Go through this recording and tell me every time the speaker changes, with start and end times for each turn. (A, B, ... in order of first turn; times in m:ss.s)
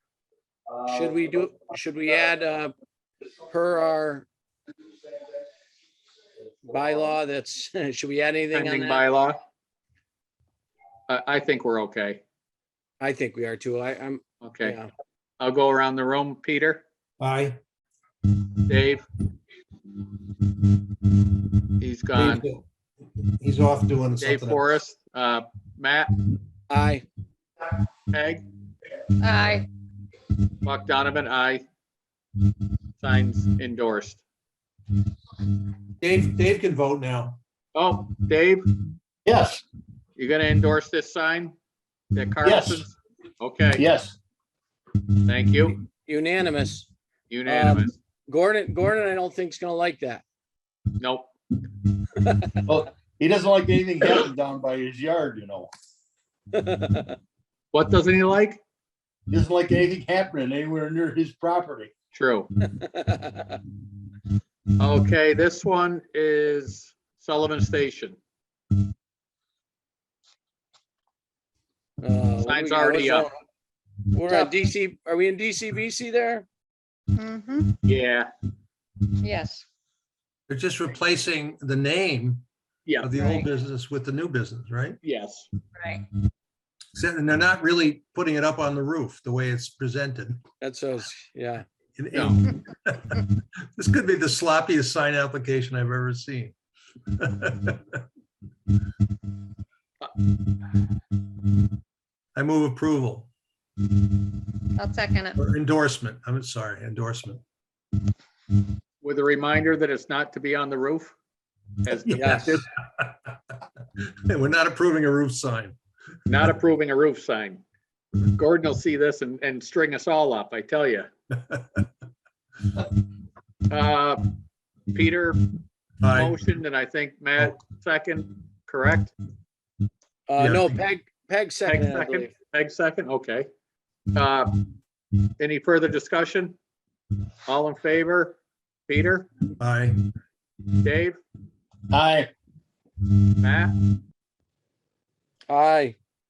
0:00.8-0:02.7 A
0:03.5-0:04.3 A
0:06.6-0:09.0 A
0:08.5-0:09.4 B
0:11.1-0:12.2 B
0:13.0-0:14.9 A
0:14.4-0:14.8 B
0:15.4-0:16.8 B
0:17.2-0:17.6 C
0:18.7-0:19.0 B
0:21.8-0:22.4 B
0:22.1-0:22.6 C
0:23.4-0:24.6 C
0:24.2-0:26.2 B
0:26.7-0:27.0 A
0:28.1-0:28.4 B
0:29.2-0:29.7 D
0:30.6-0:31.6 B
0:33.0-0:34.2 B
0:36.0-0:37.4 C
0:37.7-0:38.7 B
0:39.2-0:39.6 E
0:40.2-0:41.5 B
0:42.1-0:43.8 B
0:42.4-0:42.8 E
0:43.8-0:44.2 E
0:45.2-0:45.8 B
0:46.0-0:46.9 A
0:47.3-0:48.0 B
0:47.4-0:50.2 A
0:51.0-0:51.3 B
0:52.2-0:52.6 A
0:52.7-0:55.7 E
0:56.5-0:57.2 A
0:57.7-0:58.6 B
0:59.3-1:01.9 E
1:02.1-1:02.5 B
1:02.8-1:03.6 A
1:04.8-1:08.2 B
1:12.0-1:13.4 A
1:12.4-1:13.3 B
1:14.1-1:16.4 A
1:14.3-1:14.6 D
1:17.1-1:17.8 D
1:17.8-1:18.3 B
1:19.2-1:19.6 D
1:20.5-1:22.4 C
1:22.8-1:23.1 B
1:23.0-1:25.0 C
1:23.2-1:23.4 D
1:25.0-1:25.5 B
1:25.8-1:26.0 D
1:26.9-1:30.4 C
1:30.6-1:31.6 A
1:32.0-1:36.5 C
1:32.1-1:32.4 B
1:37.2-1:38.0 C
1:42.3-1:43.3 C
1:44.8-1:45.4 D
1:45.4-1:47.4 C
1:49.0-1:51.1 B
1:51.8-1:52.6 B
1:52.0-1:53.2 C
1:52.2-1:52.5 A
1:54.3-1:55.8 C
1:56.3-1:57.6 B
1:58.3-2:01.1 B
2:03.7-2:04.4 B
2:04.9-2:05.4 B
2:06.0-2:06.4 C
2:06.1-2:09.1 B
2:10.3-2:12.3 A
2:10.4-2:10.8 C
2:11.6-2:13.5 B
2:14.1-2:14.6 B
2:15.4-2:16.6 B
2:17.4-2:19.3 B
2:19.6-2:20.0 C
2:20.8-2:21.2 B
2:21.9-2:22.3 E
2:23.4-2:23.8 B
2:25.5-2:26.0 A